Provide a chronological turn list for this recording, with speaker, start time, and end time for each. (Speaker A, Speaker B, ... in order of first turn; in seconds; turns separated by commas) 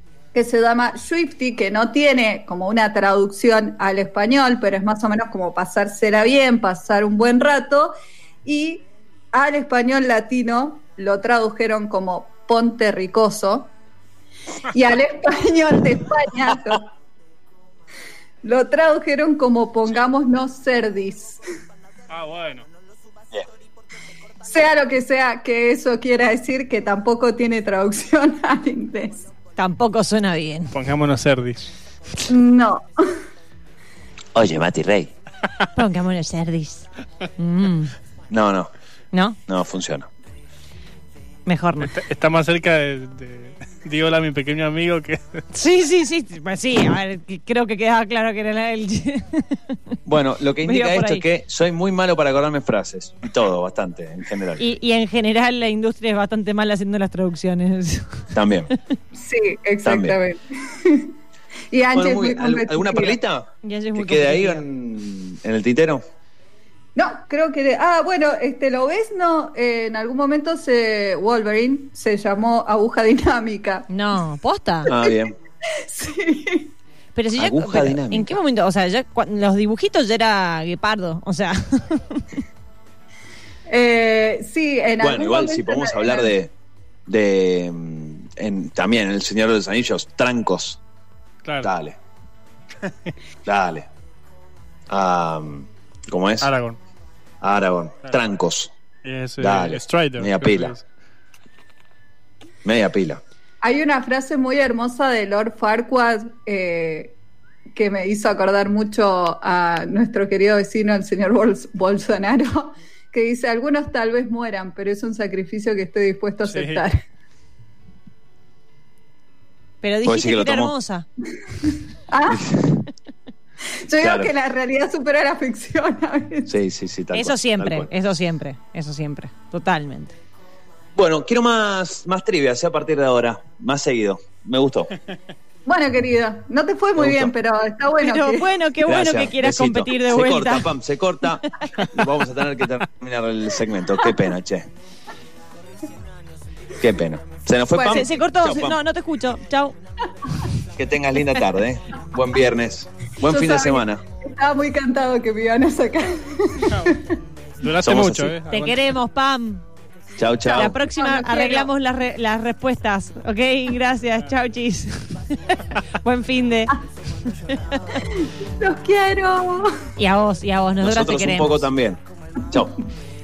Speaker A: 0.3-7.9, Speaker A: 8.4-13.7, Speaker A: 14.7-16.9, Speaker A: 18.4-21.4, Speaker B: 22.1-22.6, Speaker A: 24.4-29.3, Speaker C: 29.6-30.7, Speaker B: 30.7-31.7, Speaker A: 32.2-33.2, Speaker D: 34.3-35.1, Speaker C: 35.7-37.9, Speaker D: 38.3-38.7, Speaker C: 39.1-39.4, Speaker D: 39.5-40.1, Speaker C: 41.5-42.0, Speaker B: 41.8-45.4, Speaker C: 45.5-49.8, Speaker D: 50.0-54.6, Speaker C: 50.6-51.2, Speaker C: 54.6-58.3, Speaker D: 58.3-58.7, Speaker A: 59.1-61.1, Speaker D: 59.8-60.2, Speaker A: 61.7-63.2, Speaker D: 61.9-66.0, Speaker C: 63.6-64.6, Speaker A: 66.9-73.9, Speaker C: 73.9-74.9, Speaker D: 74.9-75.3, Speaker A: 74.9-76.7, Speaker C: 77.1-82.3, Speaker D: 77.4-78.4, Speaker A: 83.7-86.3, Speaker D: 85.0-86.5, Speaker D: 87.1-90.8, Speaker B: 91.4-91.7, Speaker D: 91.6-92.0, Speaker D: 93.5-93.9, Speaker D: 94.9-96.5, Speaker B: 96.4-96.8, Speaker D: 97.4-98.7, Speaker B: 99.0-100.8, Speaker D: 99.4-100.7, Speaker D: 102.6-103.2, Speaker A: 103.6-107.1, Speaker A: 107.7-117.0, Speaker B: 116.5-116.8, Speaker C: 119.8-121.1, Speaker D: 120.0-120.7, Speaker A: 122.1-122.5, Speaker D: 122.3-122.8, Speaker A: 123.8-126.5, Speaker D: 124.0-124.3, Speaker D: 126.5-127.9, Speaker C: 127.1-130.2, Speaker D: 130.9-134.9, Speaker A: 135.7-138.5, Speaker D: 136.9-137.3, Speaker C: 138.0-140.7, Speaker D: 138.8-144.7, Speaker D: 146.8-148.8, Speaker A: 147.7-148.0, Speaker C: 147.7-149.7, Speaker D: 150.8-154.0, Speaker A: 153.2-157.2, Speaker B: 157.6-158.8, Speaker D: 157.8-158.3, Speaker C: 158.5-159.6, Speaker D: 160.2-160.8, Speaker A: 160.4-161.7, Speaker C: 160.5-168.0, Speaker A: 168.0-169.8, Speaker C: 170.0-171.7, Speaker D: 170.8-172.8